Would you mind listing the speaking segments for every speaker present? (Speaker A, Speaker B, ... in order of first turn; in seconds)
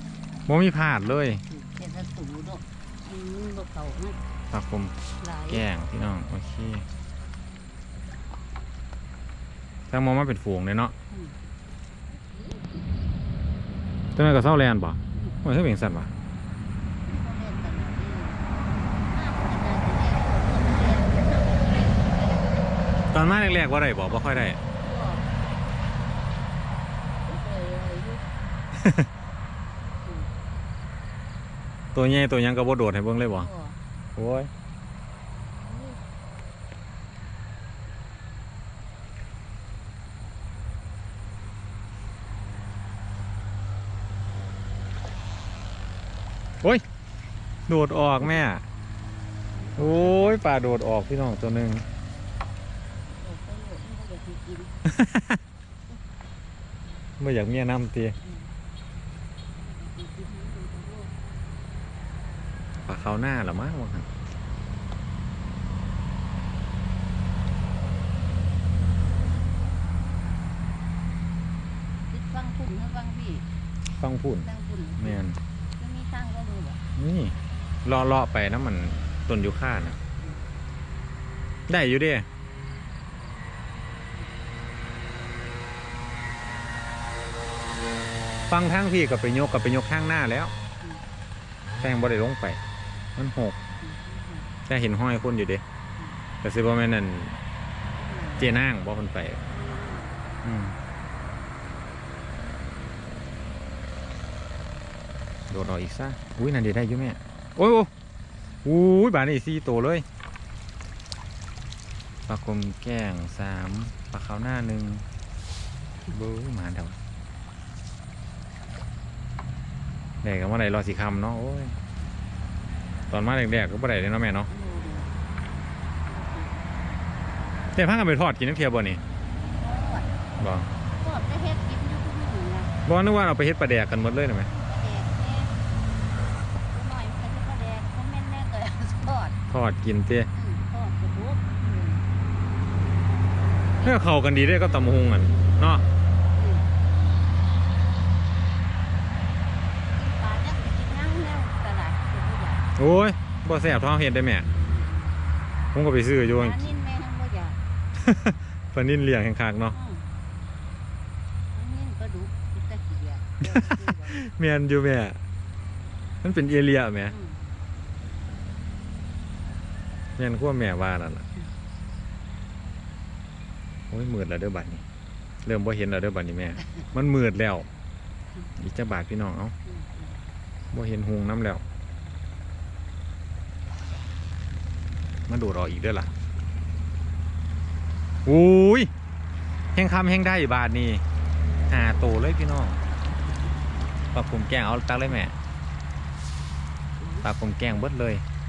Speaker A: 0.5-1.4, 4.5-5.0, 5.5-6.9, 9.9-10.9, 14.2-16.1, 23.1-24.6, 28.8-29.1, 31.9-33.5, 34.1-34.5, 47.7-48.6, 49.8-51.8, 54.9-55.4, 57.2-58.1, 62.9-64.1, 74.0-74.5, 75.0-75.4, 77.0-80.0, 81.7-82.3, 88.5-90.5, 91.8-92.6, 93.2-93.5, 94.7-95.6, 96.4-97.4, 98.4-99.4, 100.4-100.8, 105.5-107.9, 108.6-110.0, 112.3-115.0, 116.1-117.0, 120.2-121.7, 123.1-124.5, 127.7-129.0, 130.4-130.7, 132.8-134.5, 139.5-140.3, 143.8-145.8, 152.8-154.5, 155.7-156.7, 158.0-159.7, 163.5-165.2, 166.2-167.1, 170.2-171.2, 173.9-174.8, 175.4-177.7, 178.6-179.5, 180.7-181.6, 185.3-186.1, 188.2-188.9, 189.7-191.0, 191.7-192.8, 194.1-195.3, 197.2-198.2
Speaker B: 1.4-4.2, 5.2-5.7, 11.1-11.4, 12.2-12.8, 17.0-18.5, 19.0-22.5, 24.8-25.3, 27.2-28.2, 30.0-30.3, 33.3-33.8, 35.5-36.0, 49.5-50.4, 53.1-54.8, 58.2-58.5, 59.8-61.1, 72.1-73.5, 74.4-75.2, 75.8-76.8, 80.2-80.5, 93.8-94.5, 97.9-98.7, 99.5-100.2, 124.5-125.1, 126.0-126.7, 129.5-130.1, 130.9-132.7, 134.4-135.5, 136.7-139.4, 140.3-142.1, 143.7-144.1, 146.2-146.7, 149.9-152.7, 154.5-155.4, 156.2-157.6, 159.7-160.1, 161.5-164.2, 167.1-167.4, 179.7-180.2, 197.0-197.8